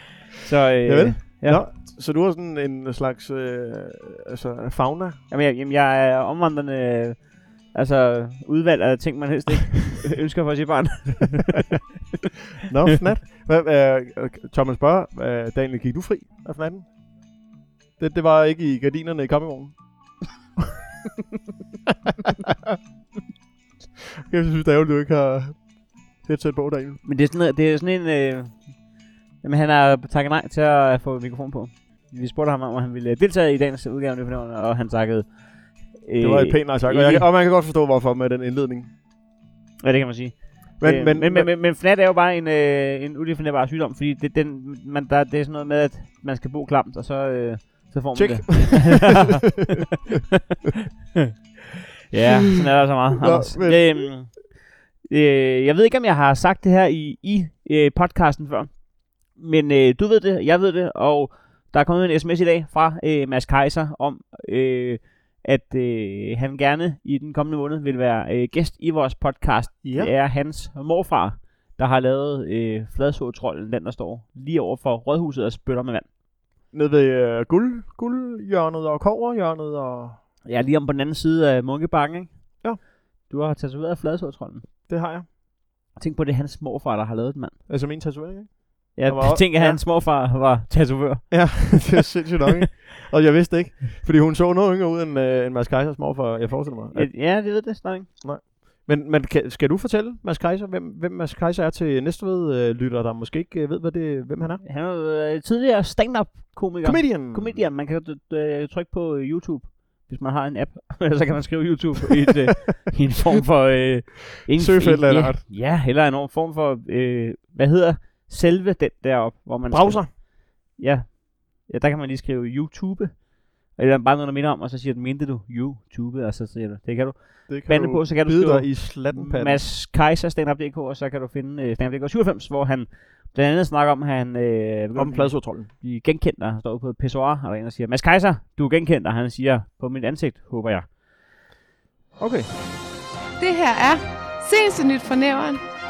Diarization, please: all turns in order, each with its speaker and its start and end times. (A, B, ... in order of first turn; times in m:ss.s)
0:00.4-0:01.7 A
0:00.8-0:05.2 B
0:05.3-0:11.7 A
0:12.6-0:16.9 B
0:18.0-0:20.2 B
0:24.3-0:27.0 B
0:27.0-0:28.9 A
0:29.4-0:37.3 A
0:36.2-0:38.9 B
0:39.8-0:49.5 A
0:40.8-0:41.5 B
0:48.1-0:49.2 B
0:52.1-1:16.1 A
0:53.2-0:54.3 B
1:09.8-1:10.1 B
1:16.7-1:20.2 B
1:20.4-1:24.7 A
1:24.9-1:25.3 B
1:26.0-1:27.6 A
1:27.7-1:29.8 B
1:28.9-1:32.1 A
1:31.3-1:37.1 B
1:36.9-1:38.1 A
1:38.2-1:44.6 B
1:44.6-2:20.9 A
1:46.8-1:47.6 B
1:54.5-1:55.4 B
1:59.7-2:00.1 B
2:07.5-2:09.6 B
2:14.9-2:15.7 B
2:22.2-2:22.5 B
2:23.4-2:25.7 C